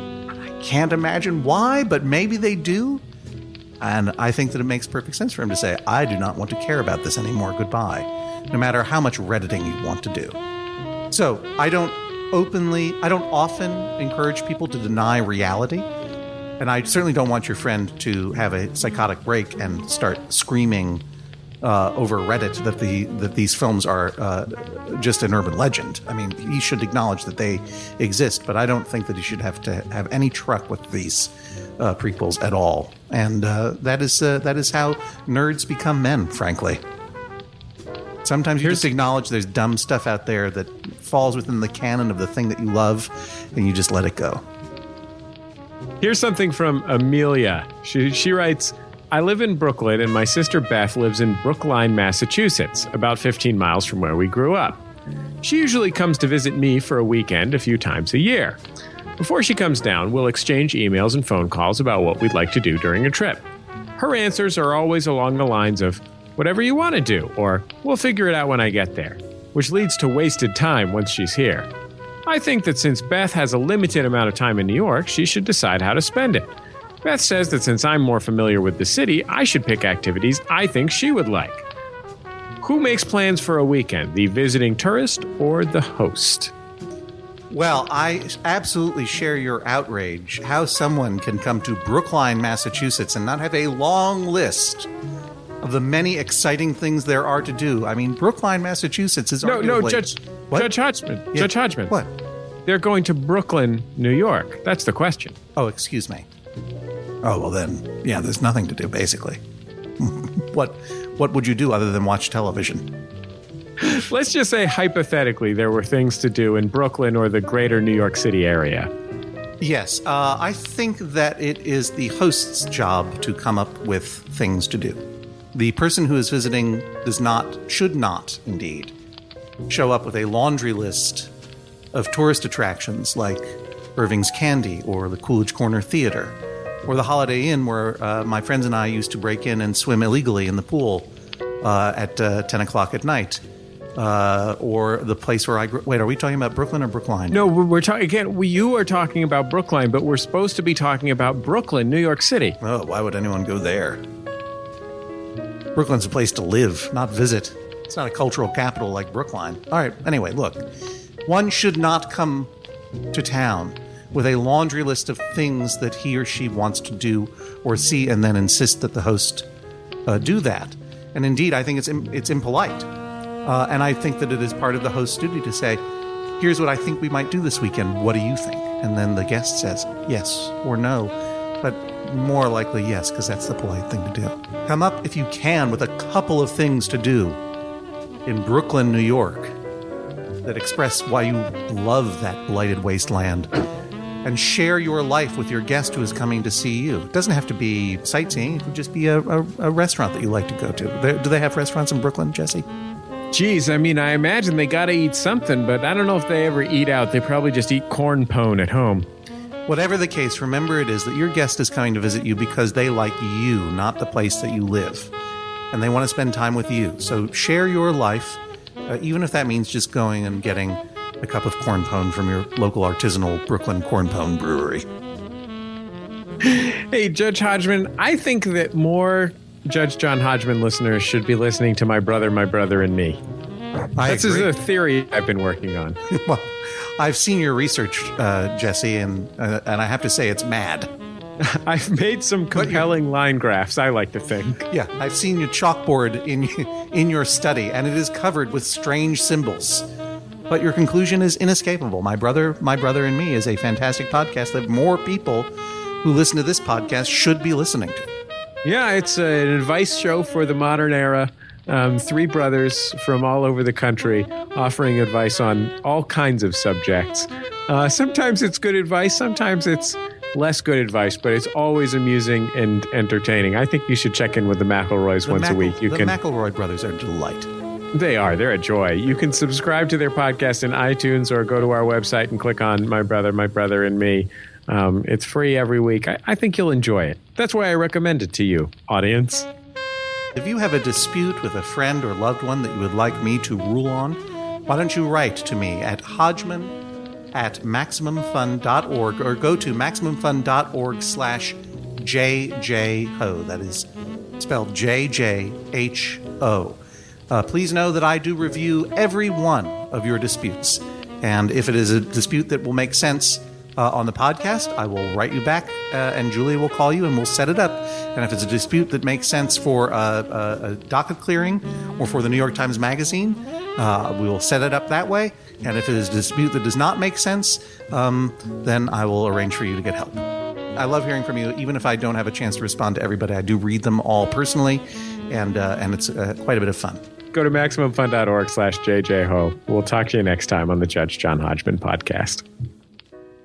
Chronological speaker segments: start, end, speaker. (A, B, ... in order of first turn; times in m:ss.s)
0:00.4-0:03.0 A
0:03.8-0:10.4 A
0:11.1-0:15.9 A
0:16.6-0:21.0 A
0:21.6-0:36.8 A
0:38.2-0:44.4 A
0:38.6-0:38.9 B
0:46.0-0:54.8 B
0:55.4-0:58.6 B
0:59.2-1:11.7 B
1:12.3-1:16.5 B
1:17.0-1:21.6 B
1:22.6-1:26.5 B
1:27.5-1:34.9 A
1:35.6-1:40.7 A
1:39.4-1:41.9 B
1:41.3-1:42.1 A
1:42.6-1:45.4 B
1:45.6-1:46.3 A
1:47.2-1:49.4 A
1:50.0-1:53.0 A
1:53.8-1:58.9 B
1:59.6-2:08.9 A
2:09.7-2:11.3 A
2:11.9-2:21.1 A
2:21.6-2:23.4 A
2:24.0-2:27.5 A
2:27.3-2:32.6 B
2:32.6-2:34.0 A
2:35.7-2:40.7 A
2:41.2-2:42.5 A
2:43.1-2:49.5 A
2:50.0-2:52.9 A
2:53.4-2:55.8 A
2:56.4-3:07.4 A
3:08.2-3:09.5 A
3:10.4-3:13.5 A
3:14.2-3:22.7 A
3:23.3-3:29.1 B
3:29.7-3:35.1 A
3:35.7-3:44.8 A
3:46.4-3:53.2 B
3:53.9-3:54.5 A
3:54.0-3:56.0 B
3:56.1-4:00.9 A
4:01.4-4:04.6 B
4:02.5-4:02.9 A
4:04.7-4:09.9 A
4:10.5-4:18.1 A
4:18.6-4:36.2 B
4:35.2-4:37.5 A
4:37.9-4:49.5 B
4:50.3-4:56.8 A
4:57.3-5:37.0 A
5:37.3-5:42.4 B